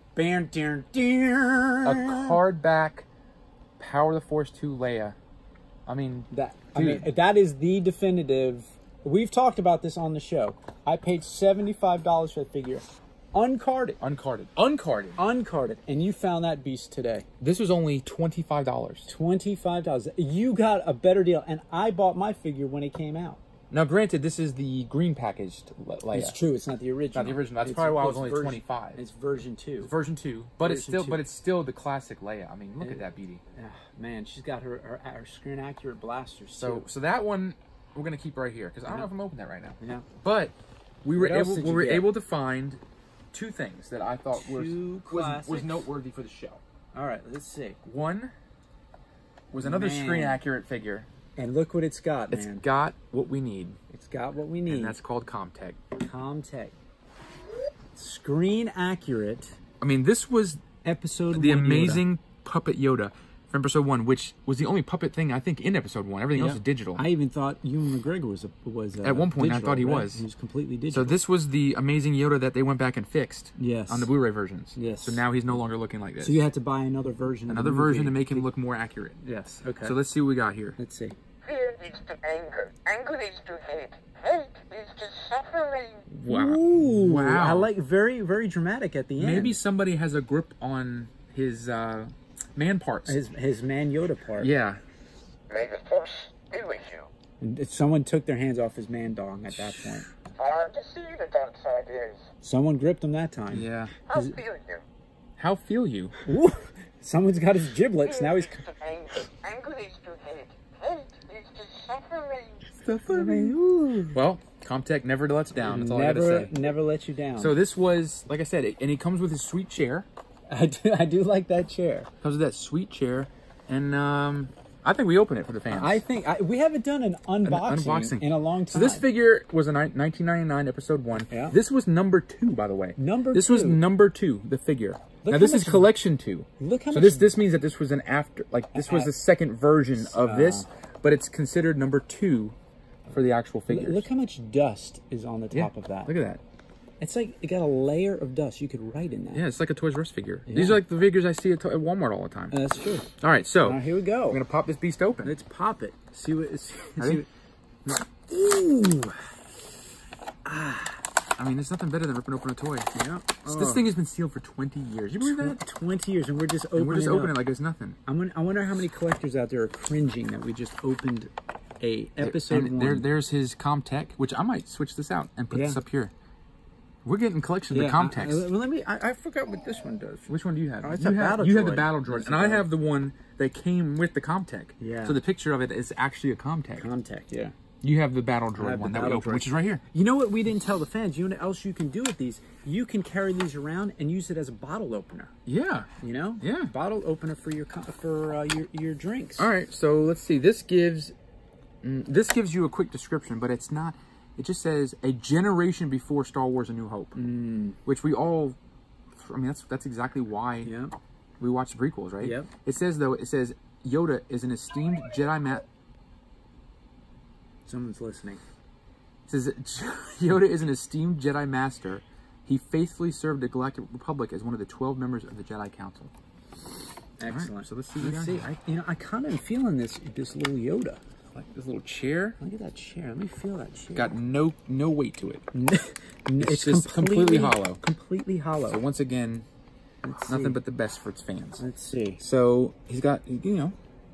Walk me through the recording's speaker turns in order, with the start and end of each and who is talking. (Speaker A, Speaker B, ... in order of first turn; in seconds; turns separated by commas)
Speaker A: 0.1-2.4, Speaker B: 1.8-3.1, Speaker B: 3.8-5.2, Speaker B: 5.9-7.1, Speaker A: 6.3-14.0, Speaker B: 14.0-15.2, Speaker A: 15.2-17.3, Speaker B: 17.4-19.1, Speaker A: 19.1-23.4, Speaker B: 23.7-26.4, Speaker A: 26.1-29.9, Speaker B: 27.1-29.0, Speaker B: 29.8-33.4, Speaker A: 30.6-31.2, Speaker A: 32.8-36.9, Speaker B: 36.6-42.8, Speaker A: 39.8-40.1, Speaker A: 41.1-42.1, Speaker B: 43.3-46.6, Speaker A: 44.4-45.9, Speaker A: 46.9-47.8, Speaker B: 47.9-48.3, Speaker B: 49.5-51.1, Speaker A: 49.6-50.4, Speaker A: 51.4-52.6, Speaker B: 52.3-53.8, Speaker A: 53.9-55.0, Speaker B: 54.7-55.8, Speaker A: 56.0-56.8, Speaker A: 57.9-59.6, Speaker B: 59.8-60.6, Speaker A: 60.8-62.1, Speaker B: 61.3-67.1, Speaker A: 66.3-71.2, Speaker B: 69.0-70.2, Speaker B: 70.9-76.4, Speaker A: 73.6-74.1, Speaker A: 74.8-75.3, Speaker A: 76.2-78.5, Speaker B: 77.5-79.2, Speaker A: 79.2-80.0, Speaker B: 79.8-80.8, Speaker A: 80.8-81.2, Speaker C: 81.5-86.1, Speaker B: 86.2-87.7, Speaker A: 86.2-89.6, Speaker B: 89.2-93.2, Speaker A: 93.1-94.5, Speaker B: 94.4-94.8, Speaker C: 95.5-97.1, Speaker A: 97.4-100.1, Speaker C: 100.3-102.3, Speaker A: 102.4-104.4, Speaker B: 103.5-103.9, Speaker C: 104.1-104.8, Speaker B: 105.4-106.2, Speaker A: 106.3-108.6, Speaker C: 108.0-112.7, Speaker B: 112.8-113.6, Speaker A: 113.0-114.2, Speaker B: 114.1-116.6, Speaker A: 115.5-117.6, Speaker B: 117.4-120.1, Speaker A: 120.5-122.1, Speaker B: 122.2-126.0, Speaker A: 125.7-129.1, Speaker B: 127.5-142.6, Speaker A: 131.3-131.6, Speaker A: 133.0-133.8, Speaker A: 135.2-135.9, Speaker A: 136.6-137.3, Speaker A: 138.7-139.1, Speaker A: 140.0-140.7, Speaker B: 143.1-144.1, Speaker A: 143.7-146.1, Speaker B: 145.5-146.4, Speaker A: 147.0-149.4, Speaker B: 149.3-152.6, Speaker A: 150.5-150.8, Speaker A: 152.5-153.1, Speaker B: 153.2-155.3, Speaker A: 153.6-154.4, Speaker A: 155.2-157.3, Speaker B: 157.0-157.2, Speaker A: 157.9-159.2, Speaker A: 160.4-161.0, Speaker B: 161.4-162.9, Speaker A: 162.9-163.9, Speaker B: 163.4-165.6, Speaker A: 165.2-167.4, Speaker B: 166.8-168.0, Speaker A: 168.1-173.1, Speaker B: 172.2-176.1, Speaker A: 175.5-175.8, Speaker B: 177.1-178.5, Speaker A: 177.7-182.7, Speaker B: 180.3-186.9, Speaker A: 184.8-185.2, Speaker A: 186.8-187.6, Speaker B: 187.8-189.8, Speaker A: 188.6-195.3, Speaker B: 195.5-195.9, Speaker A: 196.0-199.5, Speaker B: 196.4-196.7, Speaker B: 199.4-201.2, Speaker B: 201.8-207.2, Speaker A: 207.2-207.8, Speaker B: 207.8-208.6, Speaker B: 209.1-210.7, Speaker A: 210.6-210.9, Speaker B: 211.4-215.7, Speaker A: 212.2-212.5, Speaker A: 217.7-218.4, Speaker B: 219.3-226.1, Speaker A: 227.2-231.0, Speaker B: 227.2-228.5, Speaker B: 231.3-232.4, Speaker A: 232.4-234.1, Speaker B: 233.9-235.4, Speaker A: 235.5-238.8, Speaker B: 236.4-237.8, Speaker B: 238.7-239.5, Speaker A: 240.0-240.6, Speaker B: 240.3-241.6, Speaker A: 241.6-242.2, Speaker B: 242.2-243.8